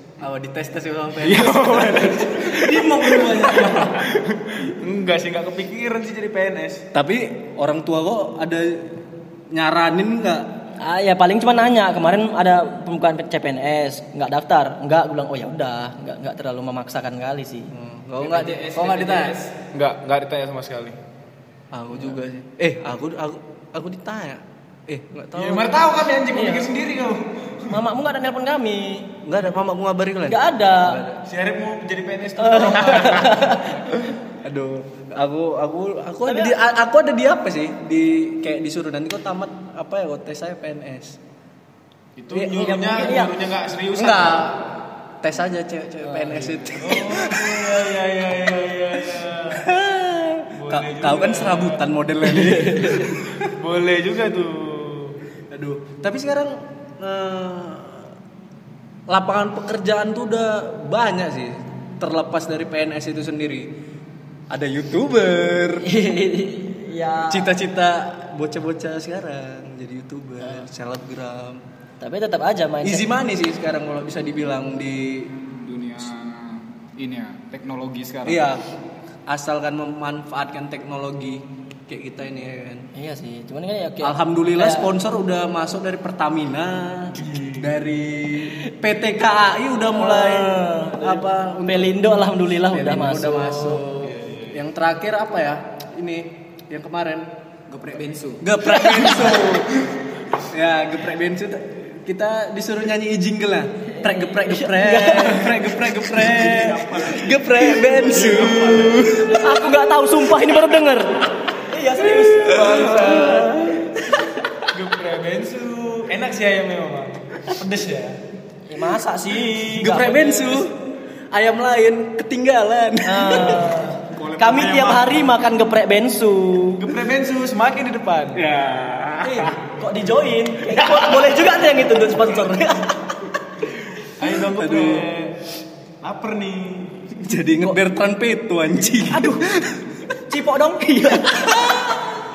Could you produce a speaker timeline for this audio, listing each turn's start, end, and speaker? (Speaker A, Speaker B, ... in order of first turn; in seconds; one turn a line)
Speaker A: 0.2-4.0
Speaker B: 1.2-6.8
Speaker A: 6.9-8.9
Speaker A: 9.5-10.5
Speaker C: 10.8-17.7
Speaker A: 17.7-19.4
Speaker D: 18.2-19.6
Speaker B: 19.7-21.0
Speaker A: 21.7-25.7
Speaker B: 25.4-27.8
Speaker C: 26.3-26.7
Speaker C: 27.7-29.1
Speaker A: 29.2-31.2
Speaker C: 30.3-31.0
Speaker B: 31.2-33.7
Speaker C: 32.4-34.0
Speaker A: 34.4-41.2
Speaker C: 36.2-36.5
Speaker B: 42.1-44.5
Speaker C: 42.3-43.3
Speaker A: 43.9-47.8
Speaker C: 46.0-46.4
Speaker B: 46.8-49.6
Speaker A: 49.5-53.5
Speaker B: 50.5-51.8
Speaker B: 52.4-55.1
Speaker A: 55.5-58.1
Speaker A: 59.1-63.8
Speaker A: 64.5-65.9
Speaker C: 65.8-67.5
Speaker A: 67.3-71.6
Speaker C: 72.0-73.1
Speaker A: 72.8-75.4
Speaker D: 75.5-78.5
Speaker A: 78.2-78.7
Speaker A: 79.3-82.9
Speaker C: 82.9-84.9
Speaker A: 84.0-97.3
Speaker C: 89.9-93.8
Speaker B: 94.0-94.6
Speaker D: 97.7-98.5
Speaker A: 98.4-109.7
Speaker C: 98.6-99.5
Speaker C: 104.0-105.8
Speaker D: 106.2-107.4
Speaker B: 107.8-109.0
Speaker D: 108.0-108.6
Speaker C: 109.2-112.7
Speaker A: 112.0-114.3
Speaker B: 112.4-113.7
Speaker B: 114.7-118.2
Speaker C: 118.7-120.6
Speaker A: 119.7-123.8
Speaker C: 123.0-126.8
Speaker D: 124.1-125.2
Speaker B: 126.8-128.4
Speaker A: 128.3-129.6
Speaker C: 129.2-133.0
Speaker B: 134.2-135.3
Speaker A: 134.5-135.1
Speaker B: 136.0-137.2
Speaker A: 137.2-139.9
Speaker C: 139.1-139.4
Speaker C: 140.3-142.0